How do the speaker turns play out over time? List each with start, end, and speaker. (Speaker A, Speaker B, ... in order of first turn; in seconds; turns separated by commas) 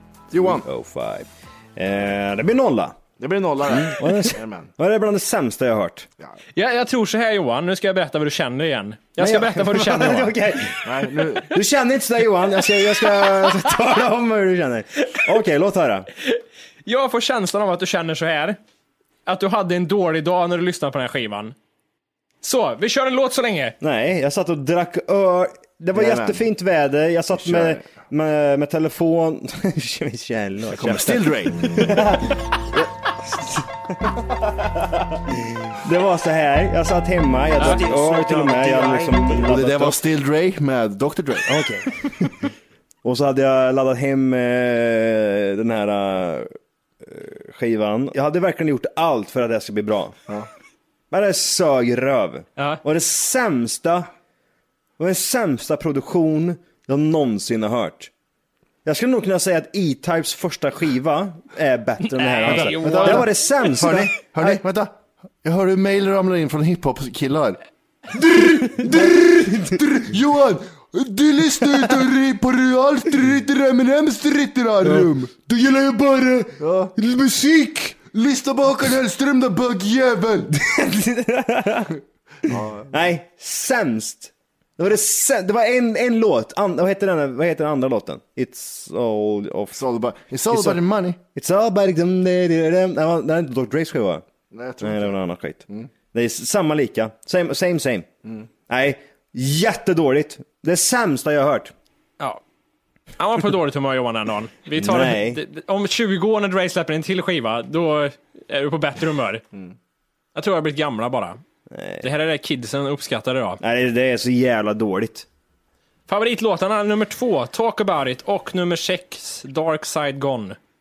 Speaker A: 0.3-0.7, Speaker B: 0.4-3.0, Speaker A: 3.2-4.7, Speaker B: 3.6-6.1, Speaker C: 6.6-10.3, Speaker B: 9.2-16.1, Speaker A: 10.8-11.6, Speaker C: 16.9-18.6, Speaker C: 19.3-21.6, Speaker C: 22.4-23.8, Speaker B: 23.8-40.0, Speaker A: 25.9-26.4, Speaker A: 27.3-27.9, Speaker A: 30.7-32.1, Speaker C: 37.6-39.2, Speaker A: 39.3-41.5, Speaker B: 41.5-42.3, Speaker B: 43.0-46.5, Speaker B: 47.0-50.1, Speaker B: 51.1-54.1, Speaker B: 55.0-58.1, Speaker B: 58.9-64.6, Speaker C: 62.1-63.3, Speaker A: 62.5-67.6, Speaker A: 68.1-77.0, Speaker B: 68.6-69.6, Speaker B: 74.8-75.1, Speaker B: 77.0-77.9, Speaker A: 77.9-80.5, Speaker B: 80.5-82.0, Speaker A: 82.5-83.0, Speaker B: 82.5-89.8, Speaker A: 89.7-91.2, Speaker B: 90.5-90.8, Speaker B: 91.3-94.2, Speaker A: 94.5-95.2, Speaker B: 94.8-98.1, Speaker B: 98.7-101.7, Speaker C: 103.2-109.4, Speaker B: 104.8-105.4, Speaker C: 110.3-111.4, Speaker B: 111.7-112.1, Speaker C: 112.0-113.6, Speaker B: 113.6-115.3, Speaker C: 116.1-120.6